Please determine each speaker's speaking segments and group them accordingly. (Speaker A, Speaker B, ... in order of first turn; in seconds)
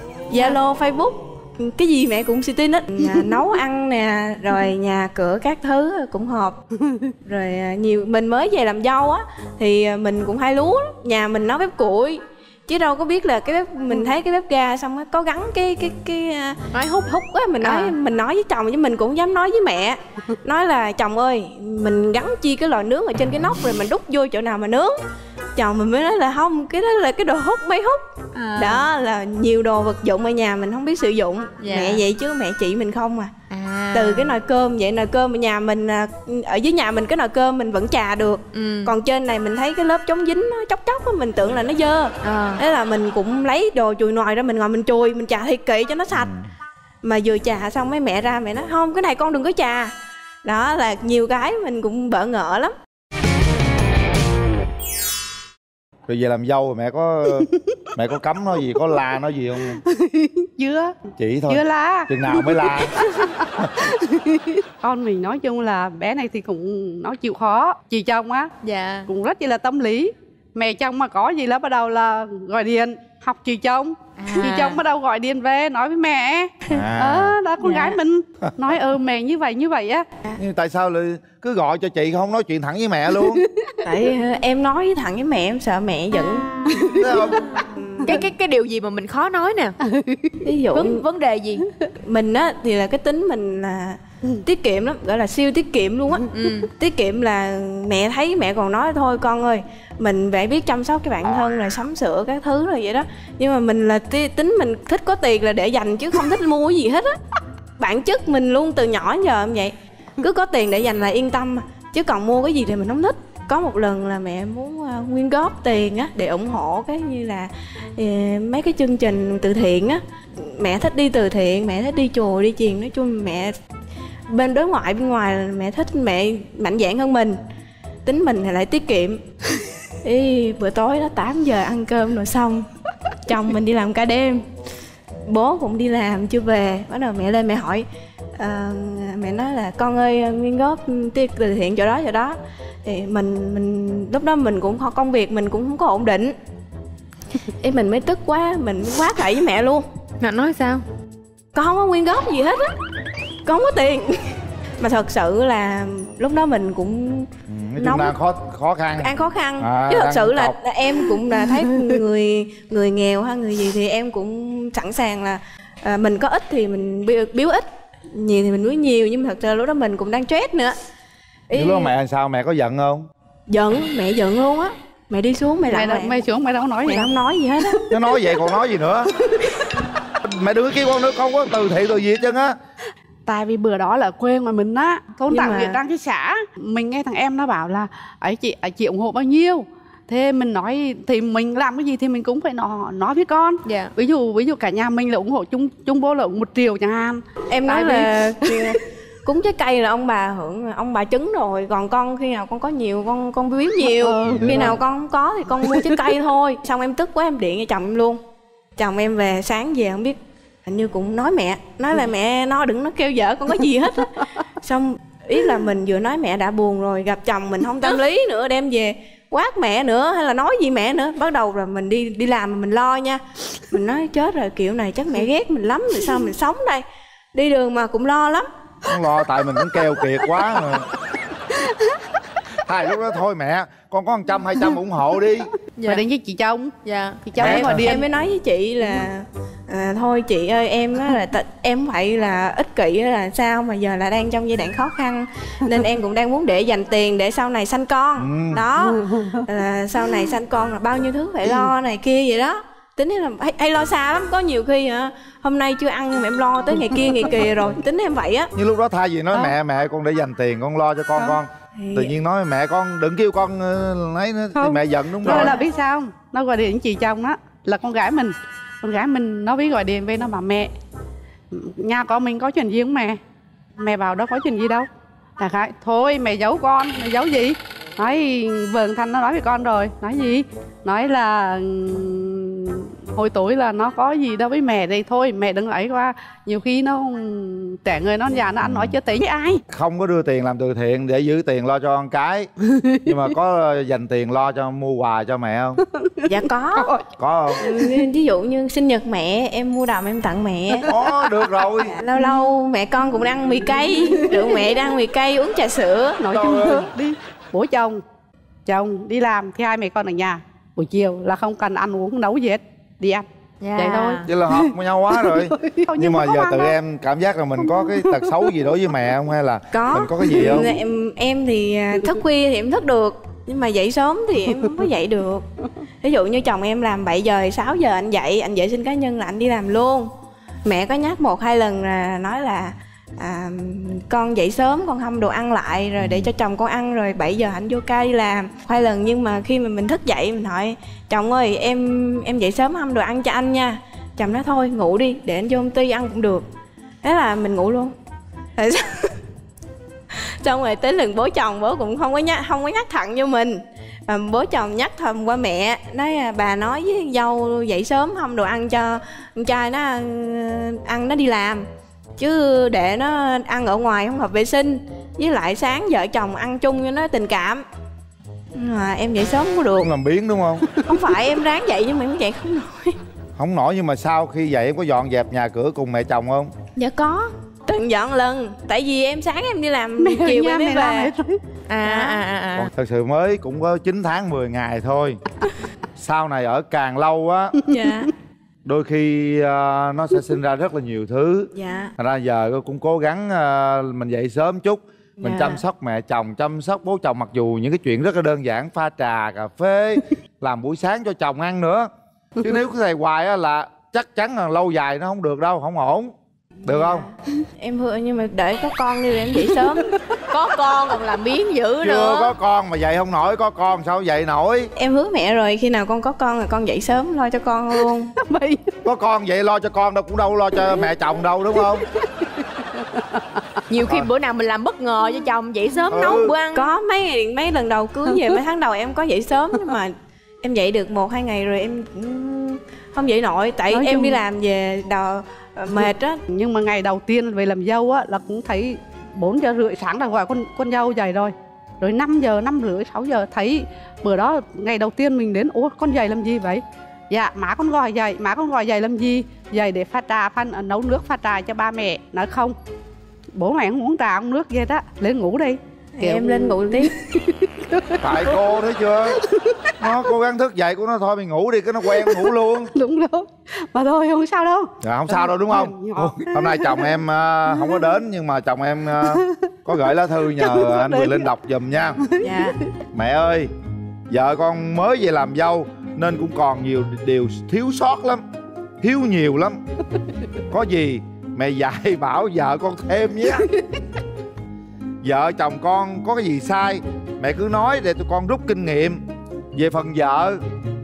Speaker A: 0.3-6.6, 7.2-25.0, 25.6-28.0, 28.6-33.3, 33.9-46.3, 47.0-49.9, 50.5-52.7, 77.6-78.0, 83.8-88.2, 90.4-91.0, 92.0-107.2, 107.8-123.5, 124.3-127.4, 128.1-129.2, 130.0-132.7, 133.3-134.4, 135.2-137.9, 138.4-146.4, 147.6-149.8, 151.5-152.7, 153.4-158.2, 159.0-170.8, 171.5-171.9, 173.5-176.2, 176.8-177.9, 185.3-185.8, 197.5-208.2, 208.8-228.5, 237.4-258.5, 261.8-262.1, 265.2-265.6, 296.3-296.9, 297.6-300.9, 301.9-306.3, 319.7-325.5, 326.0-330.1, 330.6-346.4, 347.0-347.9, 348.6-349.2, 350.1-361.6, 362.2-367.6, 368.6-369.9, 370.9-372.9, 376.8-381.1, 381.8-382.2, 387.7-388.1, 391.6-391.9, 395.2-395.6, 406.6-409.9, 414.8-418.1, 425.9-436.2, 456.0-456.9, 472.2-472.6
Speaker B: 16.7-17.9, 28.4-28.9, 31.6-32.0, 33.5-34.4, 38.5-38.9, 42.2-42.6, 68.6-69.1, 74.2-74.8, 88.0-89.8, 90.7-91.7, 96.3-96.7, 150.2-150.8, 193.7-193.9, 235.8-236.0, 236.8-237.2, 313.6-314.3, 381.7-382.7, 410.3-412.3, 423.7-426.7
Speaker C: 46.1-46.5, 56.1-59.8, 61.2-63.0, 63.6-63.9, 76.7-77.4, 80.4-83.4, 87.0-87.4, 157.5-160.6, 171.6-173.1, 177.9-179.1, 180.2-182.6, 204.3-204.7, 228.9-230.9, 232.6-235.5, 237.4-238.0, 248.2-248.6, 258.6-265.6, 288.6-288.9, 289.7-292.5, 293.1-295.8, 297.2-297.7, 300.9-302.0, 306.3-306.9, 314.3-320.7, 336.0-336.3, 369.8-370.6, 373.4-376.5, 382.6-385.2, 386.0-387.6, 388.6-406.1, 406.6-407.1, 411.8-414.7, 418.9-421.9, 423.8-424.1, 425.9-426.3, 458.0-459.2, 459.8-462.7, 464.8-472.0, 472.9-473.5, 474.1-478.2, 478.8-479.6, 480.5-483.5, 485.0-489.0, 489.5-490.4
Speaker D: 59.8-61.0, 61.5-68.5, 69.1-80.1, 89.8-90.5, 175.7-177.1, 183.3-198.8, 203.8-204.7, 205.7-206.0, 231.5-232.0, 235.8-238.0, 248.9-249.4, 264.6-270.7, 271.5-273.2, 273.8-274.9, 275.4-289.6, 295.9-297.1, 300.7-301.5, 304.1-304.6, 306.2-308.0, 308.7-313.2, 313.8-316.7, 317.6-318.7, 320.2-320.6, 380.0-381.4, 409.4-410.1, 418.2-418.7, 422.0-423.2, 433.7-434.2, 436.3-452.6, 453.3-458.4, 459.2-459.8, 461.9-466.9, 467.5-467.8, 469.0-469.3, 470.4-471.3, 472.0-472.6